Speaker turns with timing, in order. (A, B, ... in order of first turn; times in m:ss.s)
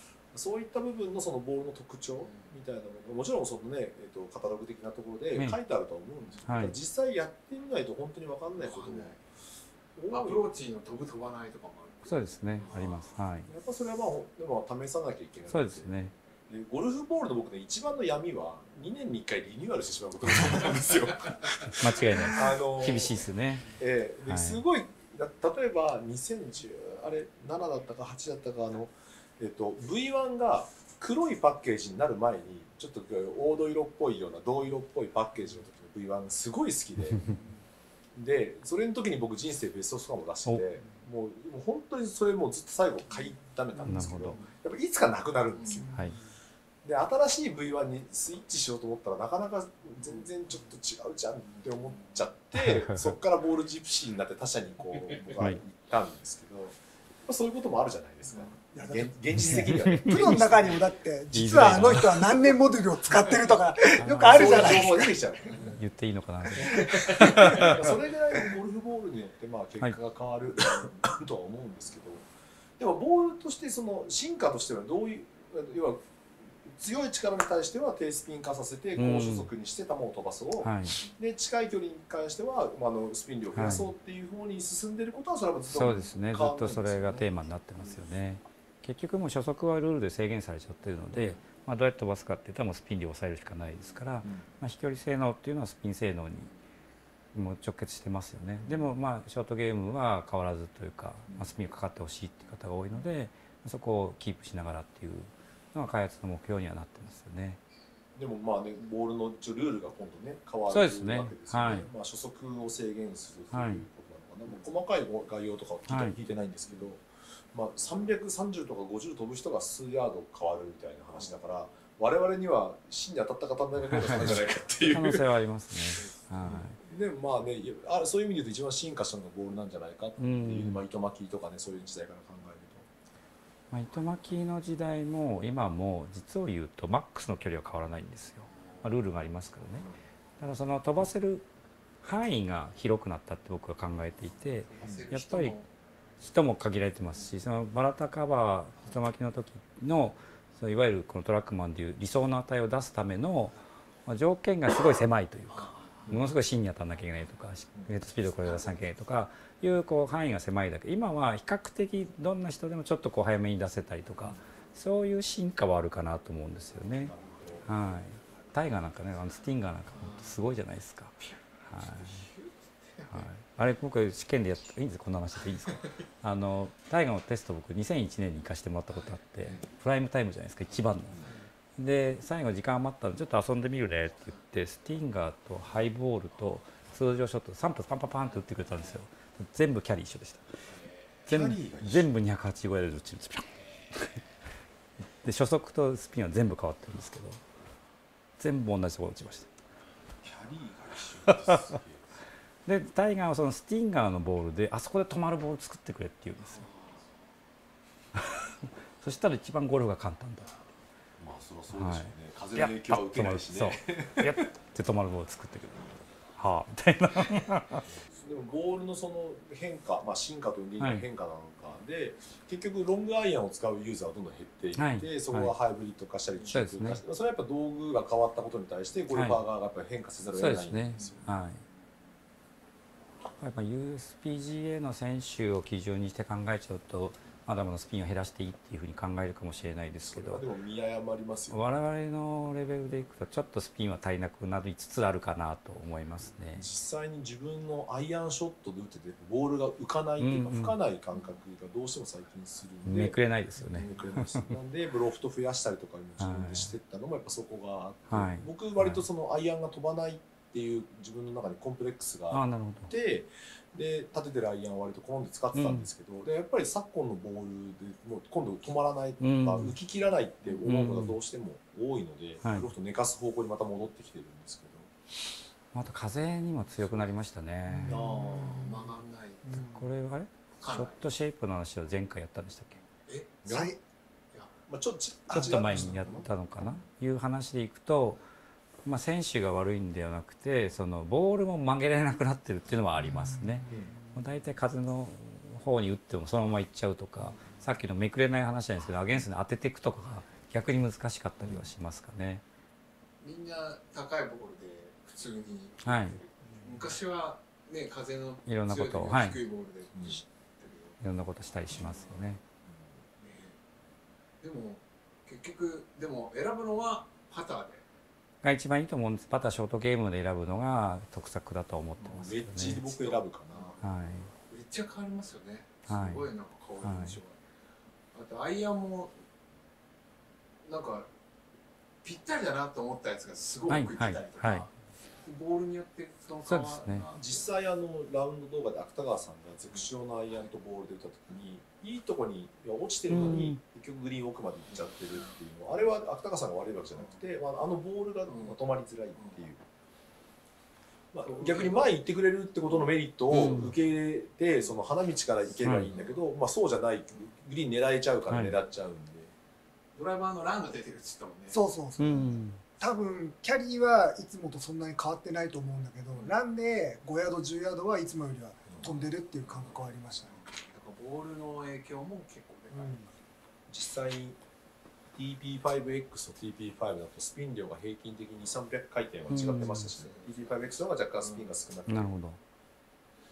0:00.3-0:09.2 A
0:06.5-0:06.8 B
0:08.6-0:09.2 C
0:10.0-0:10.5 A
0:10.1-0:13.1 C
0:12.1-0:13.5 B
0:13.5-0:15.9 A
0:15.5-0:16.1 B
0:16.5-0:23.2 A
0:21.7-0:23.7 B
0:23.8-0:37.4 A
0:24.3-0:24.6 B
0:38.2-0:45.9 A
0:43.8-0:44.1 D
0:43.8-0:44.4 B
0:45.6-0:45.9 C
0:45.7-0:46.3 D
0:46.8-0:56.8 A
0:52.5-0:53.2 B
0:57.3-1:00.8 A
0:58.7-1:05.2 D
0:59.3-1:00.4 B
1:01.3-1:02.4 B
1:04.0-1:04.9 B
1:04.2-1:05.7 A
1:05.6-1:07.8 B
1:06.8-1:07.3 D
1:07.0-1:12.2 A
1:12.8-1:16.0 A
1:16.6-1:27.3 A
1:19.0-1:19.5 B
1:20.6-1:21.0 B
1:23.6-1:23.9 B
1:25.7-1:36.5 B
1:37.3-1:47.6 B
1:38.6-1:38.9 A
1:48.2-1:57.0 A
1:50.7-1:51.9 B
1:53.5-1:53.8 B
1:55.9-1:56.2 B
1:57.5-2:05.3 A
2:03.9-2:06.8 B
2:06.0-2:07.0 C
2:06.5-2:12.9 A
2:10.2-2:10.8 B
2:13.7-2:19.9 B
2:20.4-2:21.5 B
2:22.0-2:25.6 B
2:24.7-2:25.7 C
2:24.8-2:25.1 A
2:26.2-2:33.5 B
2:34.1-2:47.1 B
2:35.5-2:36.1 C
2:47.0-2:47.7 A
2:47.7-2:52.2 B
2:49.9-2:50.3 C
2:51.2-2:53.3 C
2:53.1-3:10.5 B
3:11.3-3:12.1 A
3:11.3-3:14.2 B
3:15.2-3:17.4 B
3:18.4-3:19.5 B
3:20.2-3:22.1 A
3:21.3-3:21.8 B
3:22.7-3:26.6 B
3:26.6-3:27.0 C
3:28.1-3:30.5 B
3:31.2-3:34.5 A
3:31.7-3:37.8 B
3:38.2-3:51.2 A
3:40.8-3:41.0 B
3:44.8-3:45.5 B
3:46.5-3:47.0 B
3:49.1-3:49.4 B
3:50.4-3:51.6 B
3:53.4-4:00.5 B
4:00.1-4:01.7 A
4:01.5-4:06.6 B
4:06.6-4:13.2 A
4:10.2-4:10.8 B
4:12.8-4:14.5 B
4:13.7-4:14.0 C
4:13.7-4:34.9 A
4:16.2-4:16.7 B
4:18.1-4:19.0 B
4:22.3-4:22.9 B
4:25.5-4:25.9 B
4:29.2-4:29.8 B
4:30.6-4:31.2 B
4:32.4-4:32.7 B
4:35.7-4:38.1 B
4:37.7-4:38.9 D
4:37.9-4:38.8 A
4:38.1-4:39.6 C
4:39.4-4:39.9 D
4:39.6-4:42.8 B
4:40.6-4:41.0 C
4:43.0-4:43.4 C
4:43.4-4:43.8 A
4:43.5-4:43.8 D
4:44.7-4:46.3 A
4:45.3-4:46.0 D
4:45.3-4:48.2 B
4:48.8-5:02.4 B
4:53.1-4:53.7 D
4:53.7-4:54.0 A
4:57.2-4:57.6 C
5:03.2-5:11.0 C
5:05.8-5:06.2 B
5:08.5-5:09.4 B
5:11.0-5:12.4 B
5:11.7-5:12.2 C
5:13.2-5:13.6 C
5:14.4-5:17.8 C
5:18.4-5:22.8 B
5:22.1-5:23.8 A
5:22.9-5:23.8 C
5:23.8-5:24.3 B
5:24.5-5:27.4 C
5:25.9-5:26.3 B
5:26.8-5:27.2 B
5:28.1-5:29.2 C
5:30.6-5:31.1 C
5:32.0-5:34.7 C
5:33.7-5:34.7 B
5:35.2-5:37.5 C
5:36.5-5:37.1 B
5:37.2-5:49.6 A
5:43.1-5:43.6 B
5:48.3-5:48.6 C
5:51.1-5:59.3 A
5:51.3-5:51.9 C
5:53.3-5:53.8 B
5:55.6-5:55.9 B
5:55.9-5:56.2 C
5:58.3-5:58.6 B
6:00.0-6:01.6 C
6:01.5-6:10.4 D
6:02.0-6:02.6 B
6:09.4-6:13.0 C
6:12.7-6:13.1 D
6:13.7-6:14.4 A
6:15.2-6:22.1 A
6:19.3-6:19.9 B
6:20.0-6:20.3 C
6:21.9-6:22.4 B